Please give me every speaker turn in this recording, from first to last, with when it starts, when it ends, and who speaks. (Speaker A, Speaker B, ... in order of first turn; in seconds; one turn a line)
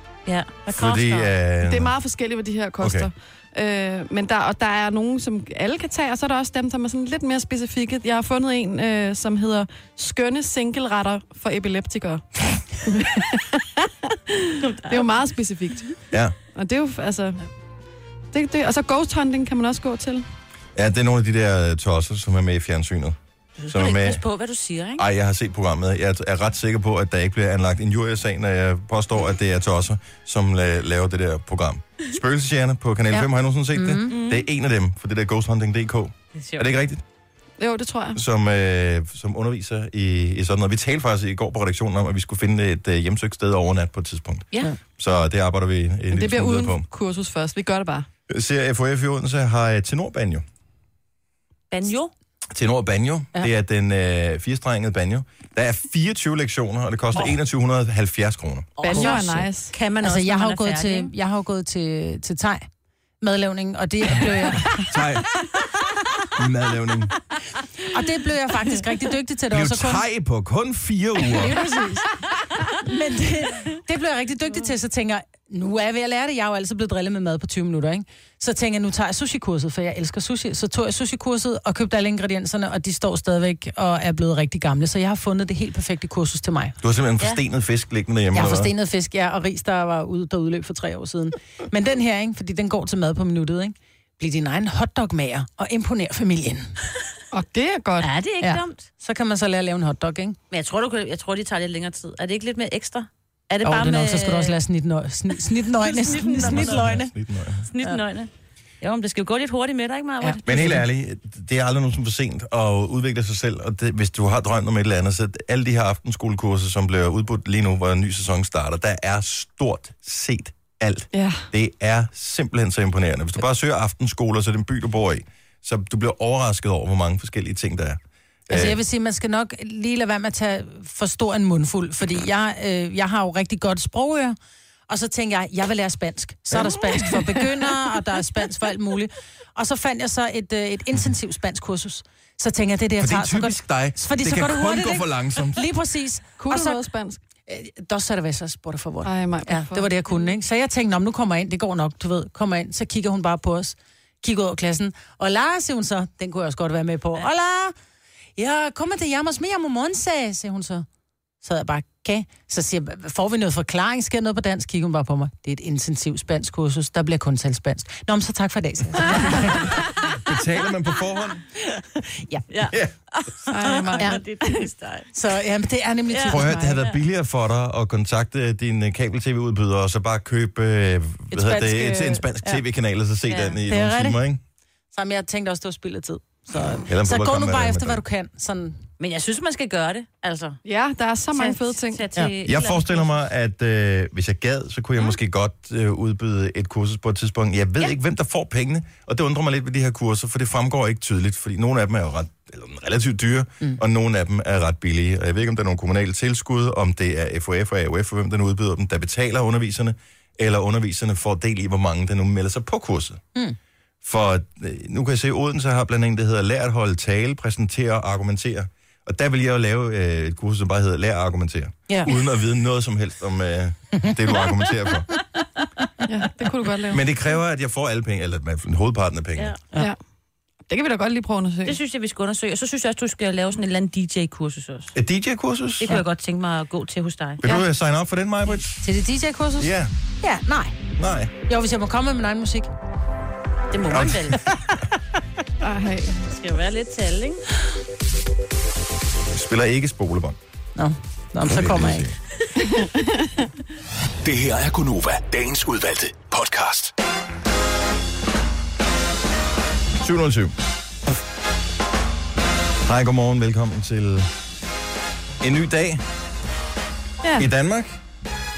Speaker A: 0.3-1.3
Speaker B: 0.7-1.9
Speaker C: 1.6-12.3
Speaker B: 2.8-3.1
Speaker C: 12.8-16.0
Speaker A: 14.9-15.2
Speaker C: 16.6-17.4
Speaker C: 18.3-20.2
Speaker B: 20.8-24.2
Speaker A: 23.6-25.1
Speaker B: 25.0-37.0
Speaker D: 33.1-34.1
Speaker A: 34.1-34.5
Speaker A: 36.4-36.7
Speaker C: 37.6-38.2
Speaker B: 38.1-46.9
Speaker C: 46.1-48.1
Speaker B: 48.3-50.4
Speaker A: 51.7-52.1
Speaker B: 52.5-58.7
Speaker A: 58.8-61.1
Speaker C: 58.8-59.7
Speaker D: 58.9-59.4
Speaker D: 60.0-62.6
Speaker D: 63.2-64.9
Speaker B: 64.9-65.5
Speaker B: 66.3-67.1
Speaker D: 67.9-70.0
Speaker B: 69.5-71.6
Speaker C: 71.2-72.7
Speaker D: 72.8-86.8
Speaker B: 86.8-88.7
Speaker D: 88.3-96.7
Speaker C: 97.3-98.1
Speaker A: 98.0-98.9
Speaker D: 98.4-100.4
Speaker A: 100.5-104.6
Speaker D: 103.6-107.1
Speaker A: 105.8-106.9
Speaker B: 106.2-107.7
Speaker A: 107.7-108.3
Speaker A: 108.8-110.7
Speaker D: 110.2-110.8
Speaker B: 110.5-128.8
Speaker C: 121.1-121.5
Speaker D: 128.5-134.4
Speaker D: 134.9-146.8
Speaker B: 136.5-137.0
Speaker B: 143.0-145.6
Speaker C: 146.4-147.2
Speaker D: 147.5-157.7
Speaker C: 149.0-149.9
Speaker D: 158.4-160.9
Speaker D: 161.4-169.7
Speaker B: 170.0-171.4
Speaker D: 172.2-172.5
Speaker A: 172.5-175.1
Speaker C: 173.5-174.6
Speaker D: 175.1-176.8
Speaker A: 176.1-176.8
Speaker B: 176.2-184.4
Speaker D: 181.3-182.6
Speaker A: 183.3-183.6
Speaker D: 183.7-184.2
Speaker D: 184.9-188.8
Speaker B: 186.9-188.0
Speaker A: 189.0-190.6
Speaker C: 190.6-192.0
Speaker A: 191.3-193.2
Speaker B: 192.4-213.2
Speaker B: 214.0-225.1
Speaker D: 221.9-222.1
Speaker C: 226.1-227.0
Speaker B: 226.9-229.6
Speaker C: 230.7-231.8
Speaker A: 231.6-234.9
Speaker B: 234.9-236.0
Speaker A: 235.8-237.4
Speaker B: 237.4-238.9
Speaker D: 238.8-240.8
Speaker B: 239.6-239.9
Speaker B: 241.0-241.3
Speaker D: 241.5-242.7
Speaker A: 243.7-244.4
Speaker B: 243.9-244.6
Speaker C: 245.6-246.2
Speaker A: 246.2-247.4
Speaker B: 249.3-250.4
Speaker D: 250.8-252.1
Speaker B: 251.4-252.2
Speaker C: 252.6-253.5
Speaker E: 254.2-256.9
Speaker B: 260.0-260.6
Speaker B: 262.8-264.3
Speaker B: 265.4-266.0
Speaker B: 267.4-268.0